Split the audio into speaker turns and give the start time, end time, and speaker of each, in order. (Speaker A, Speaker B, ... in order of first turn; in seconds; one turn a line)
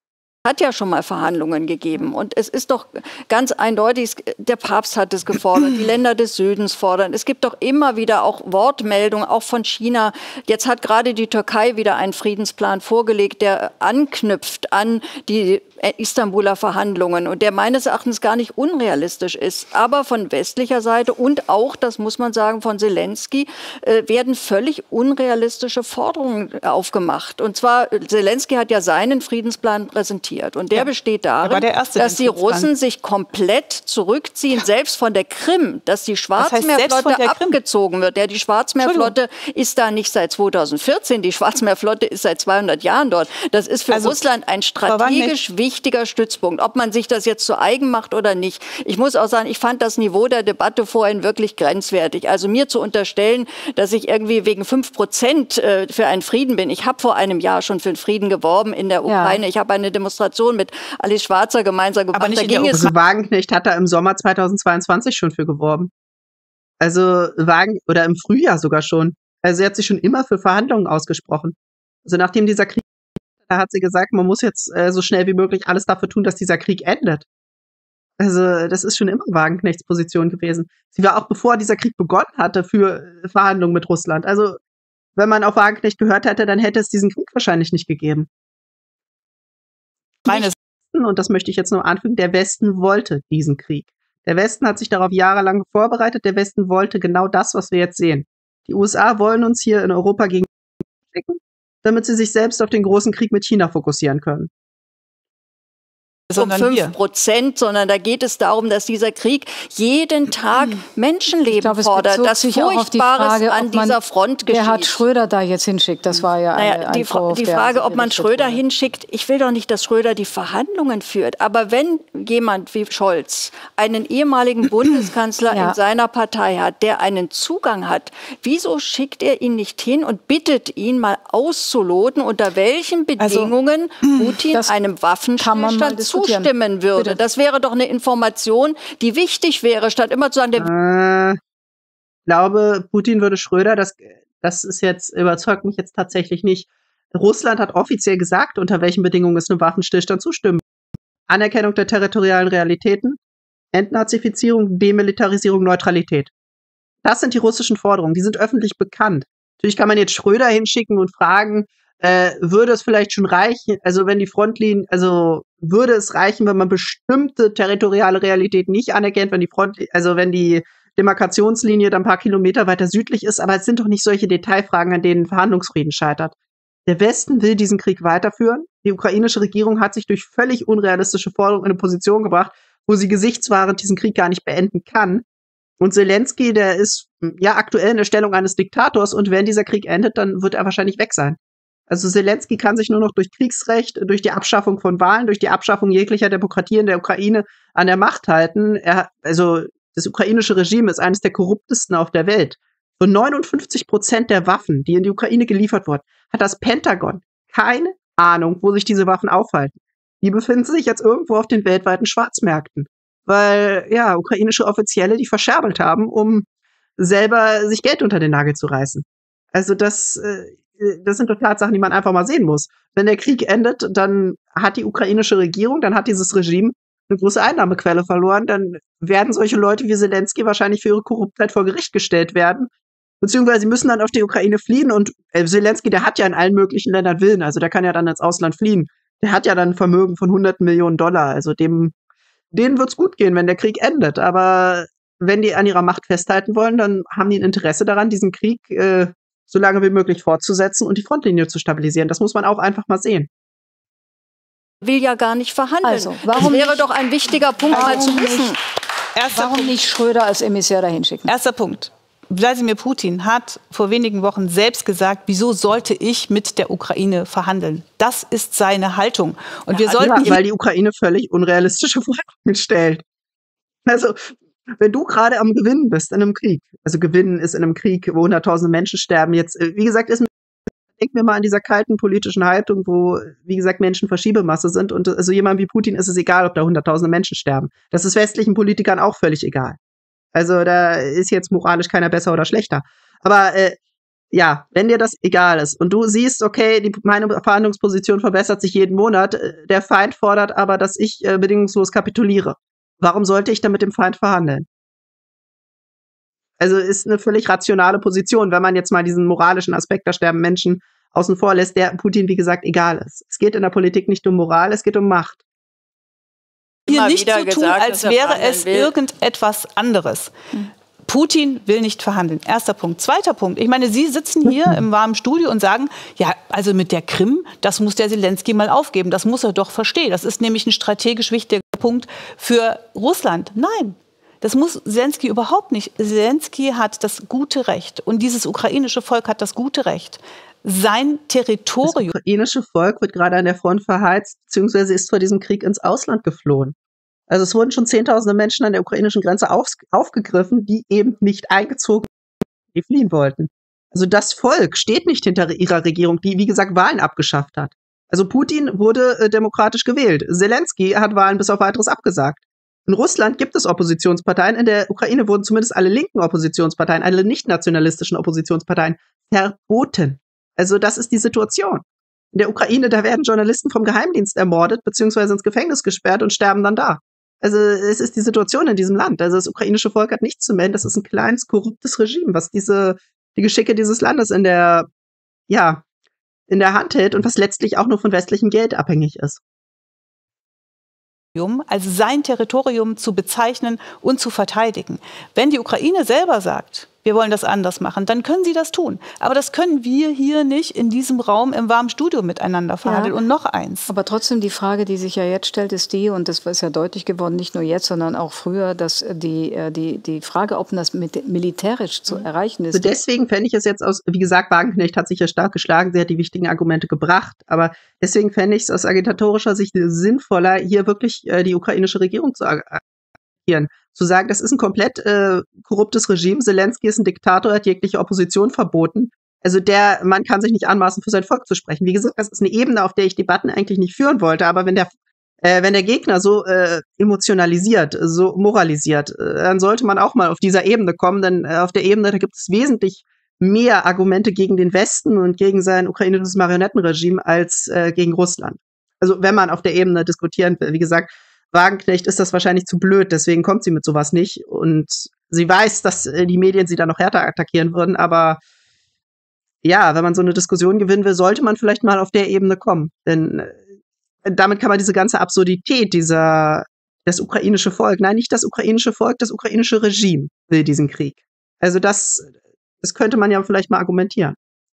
Speaker A: 0.4-62.9
Speaker B: 31.4-32.7
Speaker B: 36.4-37.6
Speaker B: 38.8-39.1
Speaker B: 43.9-44.2
Speaker B: 44.8-45.4
Speaker C: 59.0-59.4
Speaker B: 62.1-62.9
Speaker D: 62.7-65.9
Speaker D: 66.8-72.8
Speaker D: 73.5-77.2
Speaker D: 78.2-84.6
Speaker D: 85.2-88.3
Speaker B: 90.3-90.5
Speaker D: 90.3-100.5
Speaker D: 101.1-104.5
Speaker B: 106.3-106.9
Speaker A: 106.3-115.0
Speaker C: 111.5-118.6
Speaker A: 116.5-140.7
Speaker C: 125.5-125.8
Speaker B: 133.2-134.3
Speaker C: 135.4-137.2
Speaker D: 140.6-141.4
Speaker D: 142.3-150.6
Speaker D: 151.3-153.2
Speaker D: 153.7-156.3
Speaker D: 157.0-176.3
Speaker D: 176.9-185.2
Speaker D: 185.8-191.4
Speaker D: 191.9-216.4
Speaker D: 217.0-232.7
Speaker D: 233.2-241.9
Speaker D: 242.5-253.3
Speaker A: 254.8-258.6
Speaker C: 255.8-256.9
Speaker C: 257.7-258.5
Speaker B: 257.7-258.3
Speaker B: 259.1-259.8
Speaker C: 259.3-261.3
Speaker B: 261.3-270.4
Speaker D: 270.0-273.0
Speaker D: 273.9-280.3
Speaker D: 281.0-289.8
Speaker D: 290.3-293.8
Speaker D: 294.3-304.6
Speaker D: 306.6-315.4
Speaker A: 316.9-318.9
Speaker B: 316.9-342.1
Speaker D: 324.5-324.8
Speaker D: 341.8-346.7
Speaker D: 347.3-352.1
Speaker D: 352.7-384.9
Speaker D: 385.5-385.8
Speaker D: 386.5-389.4
Speaker B: 391.3-403.9
Speaker C: 402.8-403.1
Speaker C: 403.9-413.0
Speaker D: 412.7-422.8
Speaker D: 423.4-434.9
Speaker D: 435.4-458.4
Speaker D: 459.6-463.6
Speaker D: 464.2-472.3
Speaker D: 472.8-474.4